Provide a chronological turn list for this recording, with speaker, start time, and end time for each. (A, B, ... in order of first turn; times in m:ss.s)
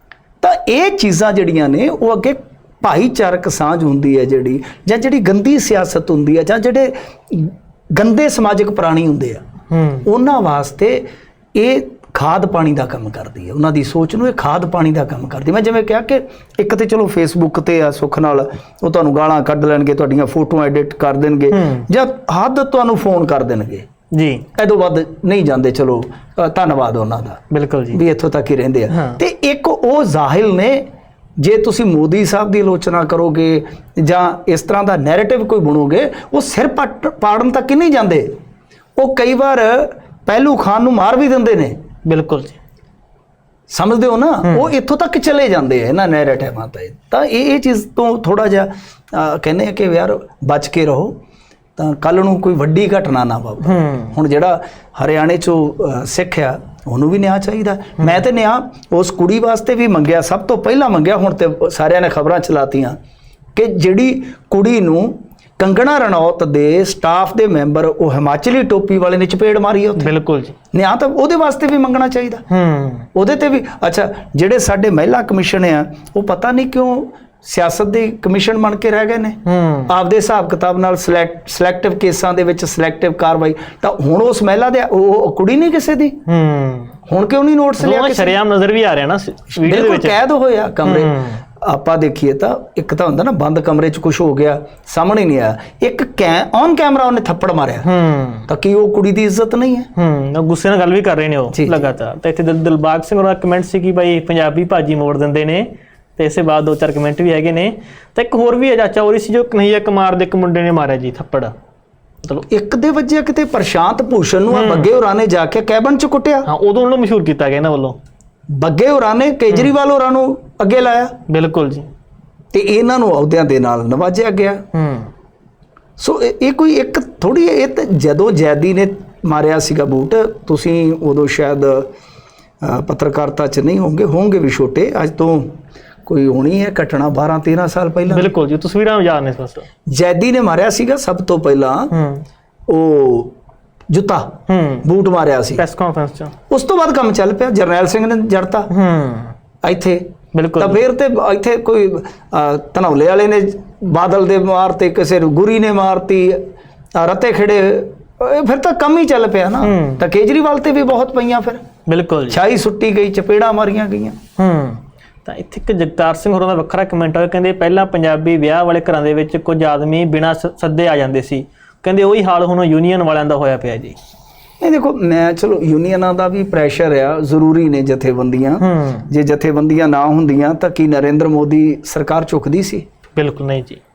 0:00.4-0:09.4 A
0:09.7-0:10.1 B
0:10.0-0:23.9 A
0:21.5-0:21.9 B
0:24.1-0:24.5 B
0:24.6-0:30.9 A
0:27.5-0:28.0 B
0:28.9-0:29.2 B
0:31.4-0:38.4 A
0:39.0-0:41.8 A
0:42.0-0:42.6 B
0:43.7-0:51.2 A
0:51.8-1:03.0 A
0:53.6-0:54.1 B
1:03.6-1:10.2 A
1:10.0-1:10.6 B
1:10.7-1:12.4 A
1:12.5-1:13.1 B
1:13.1-1:26.2 A
1:19.4-1:19.9 B
1:26.3-1:26.9 B
1:27.1-1:28.4 A
1:27.8-1:30.2 B
1:29.6-1:37.9 A
1:30.8-1:31.4 B
1:37.8-1:38.5 B
1:38.5-1:39.9 A
1:40.0-1:51.5 B
1:41.5-1:41.8 A
1:52.5-1:56.5 A
1:54.5-1:54.9 B
1:56.5-1:58.0 B
1:58.5-2:01.2 A
2:01.3-2:01.9 B
2:02.5-2:04.6 A
2:04.7-2:05.1 B
2:06.0-2:11.9 A
2:12.6-2:15.5 A
2:16.1-2:18.3 A
2:18.1-2:19.7 B
2:19.9-2:21.9 A
2:21.9-2:22.2 B
2:22.7-2:23.3 A
2:23.9-2:25.6 A
2:24.5-2:24.9 B
2:25.6-2:26.3 B
2:26.5-2:28.7 A
2:28.7-2:29.3 B
2:29.6-2:36.4 A
2:30.3-2:30.8 B
2:37.0-2:41.6 A
2:39.6-2:40.0 B
2:41.9-2:42.4 B
2:42.3-2:44.2 A
2:44.4-2:54.0 B
2:54.6-3:02.8 A
2:58.6-2:59.1 B
3:03.2-3:03.8 B